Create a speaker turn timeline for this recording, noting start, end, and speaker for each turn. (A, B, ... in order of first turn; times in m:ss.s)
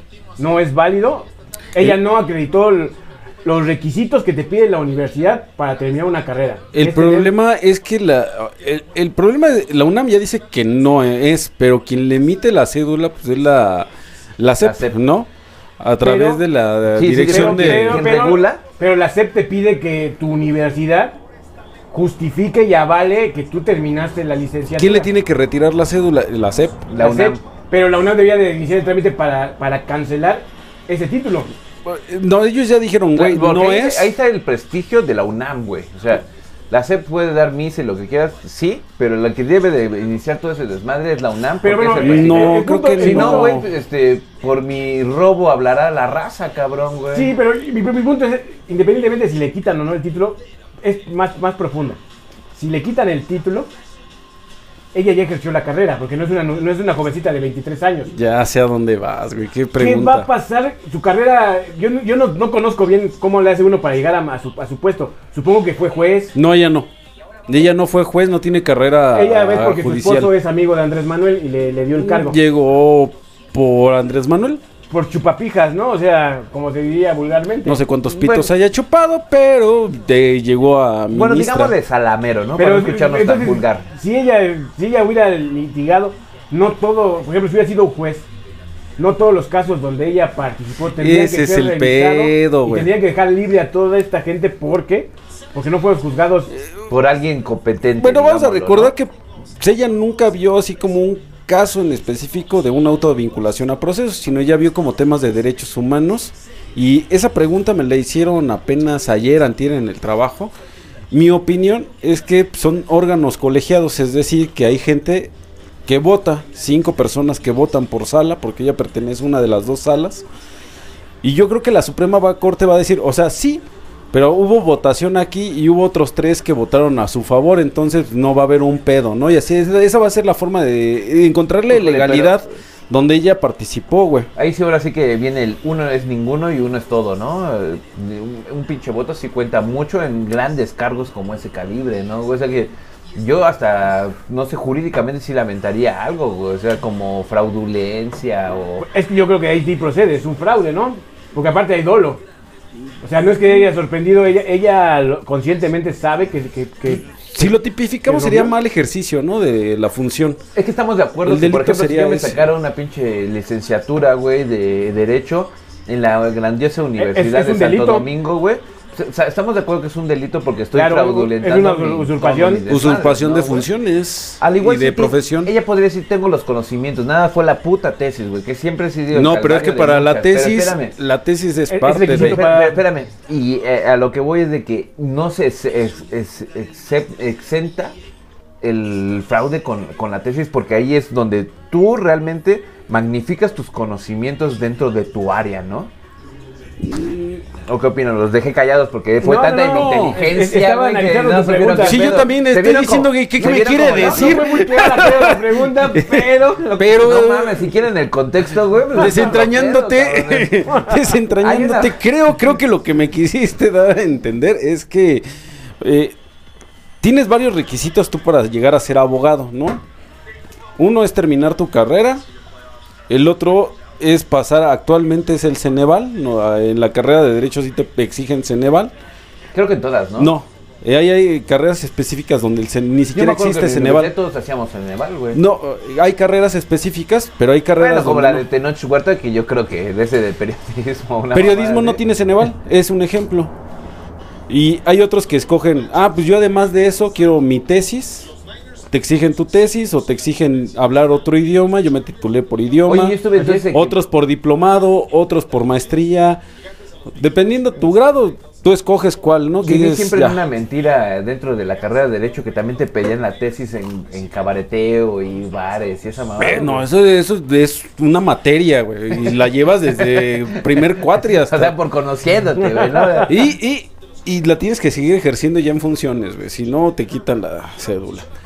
0:00.4-0:07.3 A
0:06.7-0:15.3 B
0:14.6-0:15.0 C
0:15.8-0:18.1 B
0:16.0-0:16.4 A
0:16.9-0:18.6 C
0:17.3-0:21.2 A
0:21.9-0:25.1 A
0:24.8-0:26.9 B
0:26.9-0:27.4 C
0:27.0-0:31.5 A
0:31.8-0:34.1 B
0:33.2-0:47.3 C
0:41.6-0:43.6 A
0:42.0-0:43.7 B
0:47.1-0:52.0 A
0:52.6-0:53.7 A
0:54.9-0:58.1 A
0:58.1-1:00.3 B
0:59.8-1:06.4 A
1:06.4-1:06.9 B
1:07.5-1:10.3 B
1:09.1-1:12.4 A
1:12.0-1:14.6 B
1:14.9-1:17.8 A
1:17.6-1:21.8 B
1:18.1-1:18.5 C
1:21.1-1:23.9 C
1:22.6-1:28.3 A
1:29.0-1:36.5 A
1:31.0-1:32.9 B
1:36.9-1:38.9 C
1:38.0-1:50.5 B
1:51.1-1:55.3 B
1:55.9-2:00.3 B
2:01.2-2:14.3 B
2:11.7-2:12.5 C
2:14.4-2:28.9 C
2:28.8-2:32.2 A
2:33.0-2:37.5 A
2:36.9-2:40.4 B
2:38.1-2:38.6 A
2:40.5-2:53.7 C
2:41.2-2:42.4 B
2:47.0-2:48.1 A
2:50.7-2:52.6 A
2:52.7-2:55.5 B
2:54.4-3:00.9 C
2:59.1-3:02.4 B
3:01.7-3:02.8 A
3:02.1-3:08.0 C
3:08.6-3:15.9 C
3:16.8-3:17.4 B
3:17.7-3:24.5 C
3:19.2-3:22.0 A
3:21.8-3:27.7 B
3:23.9-3:26.8 A
3:26.6-3:30.8 C
3:28.9-3:35.2 B
3:31.3-3:32.0 C
3:35.8-3:36.2 B
3:37.0-3:39.8 B
3:40.8-3:42.2 B
3:43.1-3:48.9 B
3:49.5-3:50.3 C
3:50.2-3:54.1 B
3:53.1-3:55.4 C
3:55.3-3:58.5 B
3:57.8-4:02.0 C
4:01.3-4:03.5 B
4:04.5-4:08.3 B
4:08.9-4:16.4 B
4:12.9-4:14.0 C
4:17.2-4:20.4 B
4:19.6-4:26.8 C
4:26.4-4:31.8 B
4:30.0-4:33.5 C
4:32.8-4:33.3 A
4:33.2-4:38.3 B